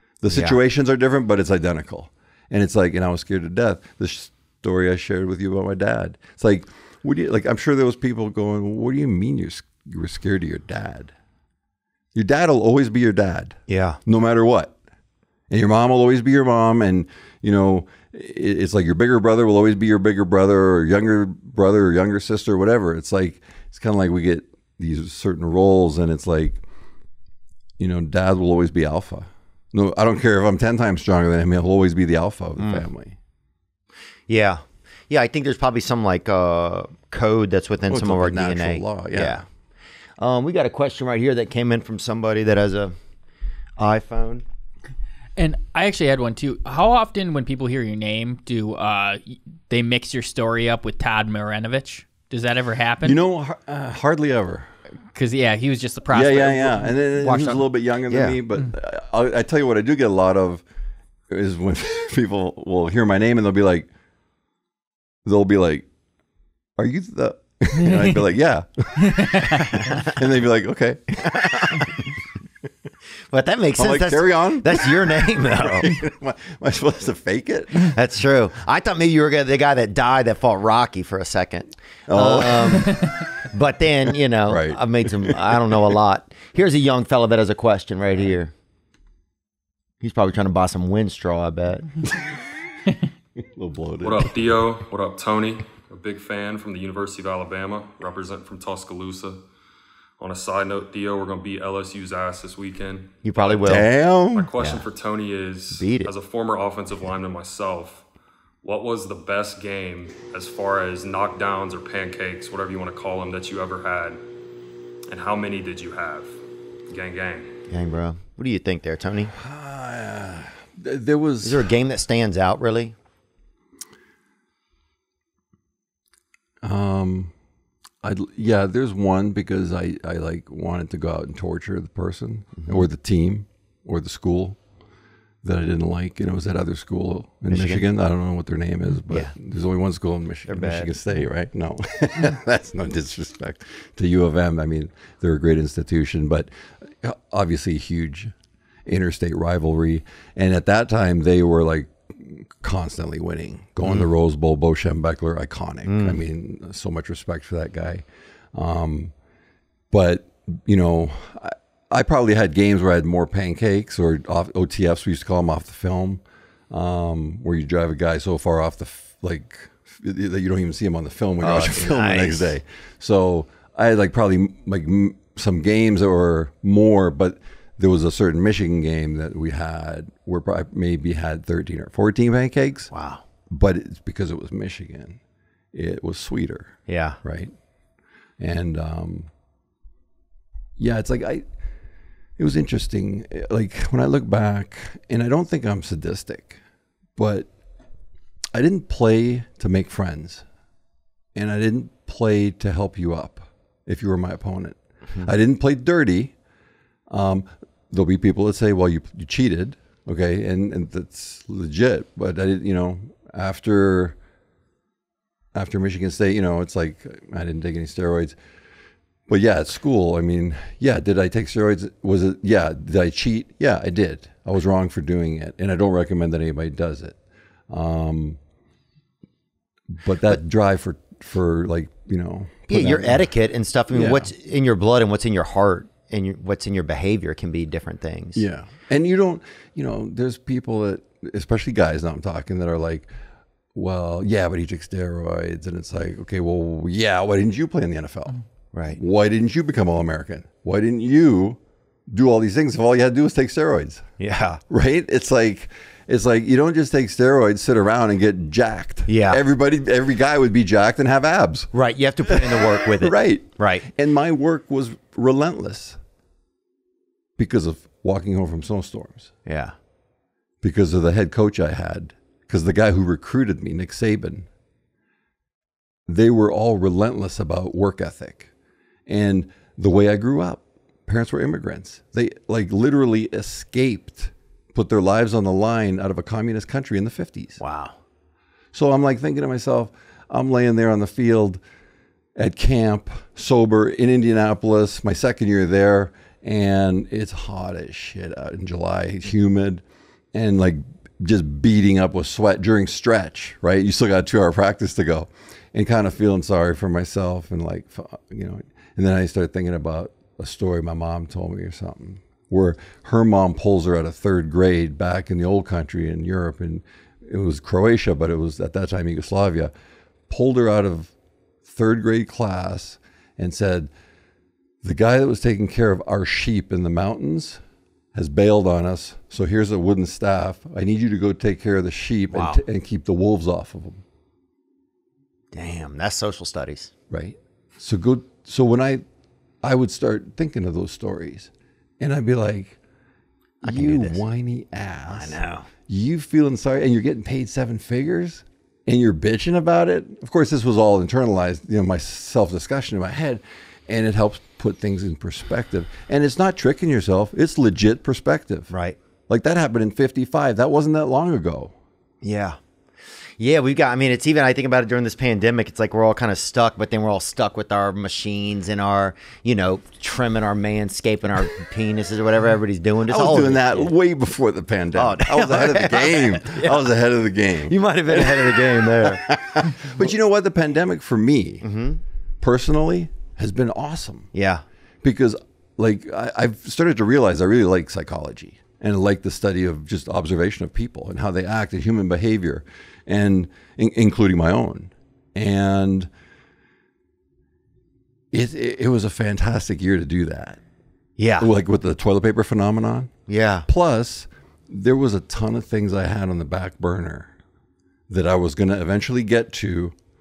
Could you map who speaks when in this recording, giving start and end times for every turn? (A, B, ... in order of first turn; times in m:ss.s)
0:00.2-0:11.1 A
0:00.3-0:00.6 B
0:12.1-0:14.8 A
0:13.7-0:14.0 B
0:15.5-0:26.6 A
0:27.8-0:33.2 A
0:32.6-0:32.8 B
0:34.3-0:39.4 B
0:37.9-0:39.4 A
0:40.2-0:42.9 B
0:43.8-0:44.4 B
0:45.4-0:53.2 C
0:53.0-0:54.7 A
0:55.1-0:57.6 C
0:56.1-1:00.6 A
0:57.2-0:58.4 B
1:01.3-1:03.9 A
1:05.2-1:05.9 A
1:06.8-1:11.9 A
1:09.1-1:09.8 C
1:09.7-1:10.1 B
1:11.2-1:12.0 B
1:13.3-1:15.9 B
1:13.8-1:18.0 A
1:17.8-1:28.5 B
1:22.1-1:23.0 A
1:24.5-1:26.0 A
1:30.0-1:31.9 B
1:33.4-1:34.7 A
1:34.0-1:39.4 D
1:40.2-1:48.0 D
1:43.2-1:43.9 B
1:43.6-1:44.5 A
1:44.6-1:44.8 B
1:45.7-1:46.1 B
1:48.6-1:54.2 D
1:55.1-1:56.3 D
1:56.9-1:57.5 D
1:57.7-1:59.3 B
1:59.3-2:01.7 A
2:01.4-2:02.9 B
2:06.6-2:07.3 A
2:08.0-2:14.6 A
2:12.6-2:12.8 B
2:15.4-2:28.3 A
2:17.5-2:17.8 B
2:20.5-2:20.9 B
2:28.8-2:39.1 A
2:33.8-2:34.1 B
2:35.8-2:36.2 B
2:39.9-3:02.9 A
2:51.4-2:52.5 B
3:02.9-3:03.2 B
3:03.5-3:05.2 A
3:05.7-3:07.5 A
3:06.9-3:07.2 B
3:08.4-3:09.3 A
3:10.8-3:11.4 A
3:12.4-3:16.6 A
3:17.2-3:17.5 A
3:18.5-3:20.4 A
3:21.3-3:26.3 A
3:27.1-3:34.2 A
3:35.5-3:38.4 A
3:39.3-3:47.2 A
3:47.7-3:48.4 A
3:49.9-3:53.3 A
3:52.7-3:58.4 B
3:53.9-3:54.3 A
3:58.3-4:03.1 A
4:03.7-4:08.4 A
4:08.7-4:09.0 B
4:09.0-4:14.1 A
4:14.2-4:14.6 B
4:14.7-4:21.7 A
4:19.1-4:19.4 B
4:21.7-4:23.9 B
4:22.2-4:26.0 A
4:27.4-4:29.3 A
4:29.4-4:29.7 B
4:30.6-4:34.5 A
4:36.1-4:38.5 A
4:39.1-4:47.6 A
4:47.6-4:48.0 B
4:48.7-4:51.6 A
4:52.4-5:19.7 A
5:20.3-5:21.1 A
5:21.6-5:23.9 A
5:24.8-5:27.6 A
5:28.1-5:34.0 A
5:32.3-5:32.6 B
5:35.5-5:36.9 B
5:37.1-5:39.0 A
5:39.6-5:42.8 A
5:43.6-5:45.4 A
5:43.6-5:44.2 B
5:45.1-5:45.7 B
5:45.9-5:58.7 A
5:58.7-5:59.0 B
5:59.3-6:01.7 A
6:02.2-6:02.6 B
6:03.4-6:13.9 B
6:13.0-6:21.6 A
6:14.9-6:16.9 B
6:17.6-6:19.3 B
6:21.6-6:22.0 B
6:22.4-6:24.3 A
6:24.3-6:24.6 B
6:25.0-6:36.1 A
6:38.3-6:40.6 A
6:41.2-6:41.5 B
6:41.4-6:43.1 A
6:43.3-6:43.7 B
6:43.7-6:47.3 A
6:48.1-6:49.9 A